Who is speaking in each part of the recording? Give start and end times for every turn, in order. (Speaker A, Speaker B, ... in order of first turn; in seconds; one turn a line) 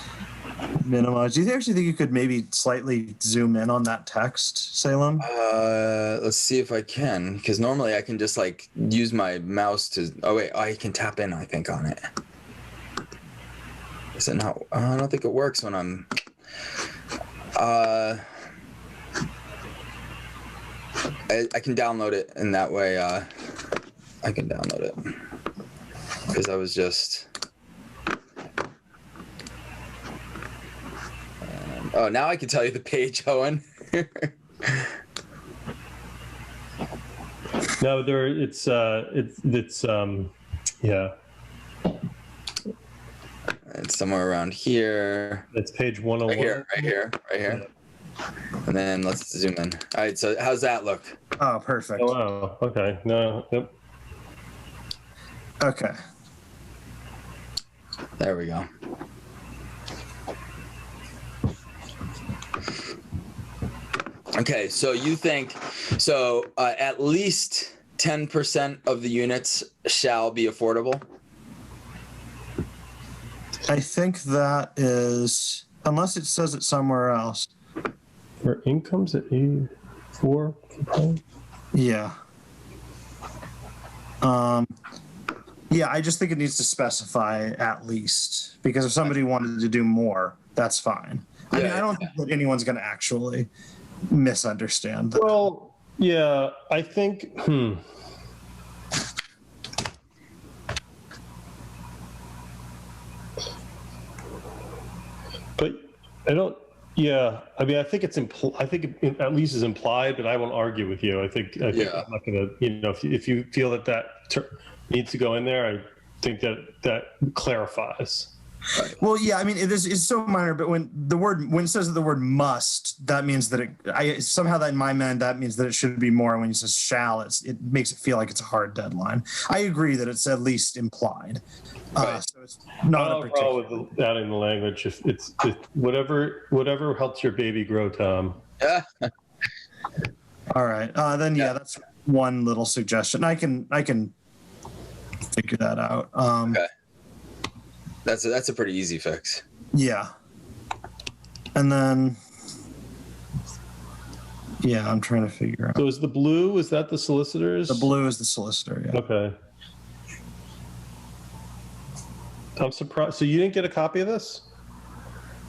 Speaker A: 0.8-5.3
Speaker B: 5.2-12.1
Speaker B: 14.2-16.1
Speaker B: 17.6-18.2
Speaker B: 21.3-23.3
Speaker B: 24.2-25.1
Speaker B: 26.3-27.3
Speaker B: 31.5-34.9
Speaker C: 37.8-40.3
Speaker C: 40.8-41.1
Speaker B: 43.7-45.5
Speaker C: 45.5-47.0
Speaker B: 46.3-47.6
Speaker B: 48.6-51.1
Speaker A: 51.4-52.1
Speaker C: 52.0-53.7
Speaker A: 55.6-56.0
Speaker B: 58.2-58.7
Speaker B: 64.4-71.0
Speaker A: 73.7-77.5
Speaker C: 78.4-81.2
Speaker A: 81.7-82.1
Speaker A: 84.2-84.7
Speaker A: 85.7-93.5
Speaker B: 91.5-92.1
Speaker A: 94.1-95.4
Speaker C: 95.2-97.8
Speaker C: 105.6-118.3
Speaker B: 111.7-112.1
Speaker A: 119.0-131.4
Speaker A: 131.9-133.9
Speaker B: 132.0-132.2
Speaker C: 132.9-138.4
Speaker B: 138.6-139.1
Speaker A: 140.5-144.1
Speaker A: 145.3-146.6
Speaker B: 148.1-149.4
Speaker A: 149.7-150.1
Speaker A: 151.6-152.2
Speaker A: 154.6-155.8
Speaker C: 155.8-157.9
Speaker A: 157.7-159.0
Speaker C: 158.9-159.4
Speaker C: 162.6-164.4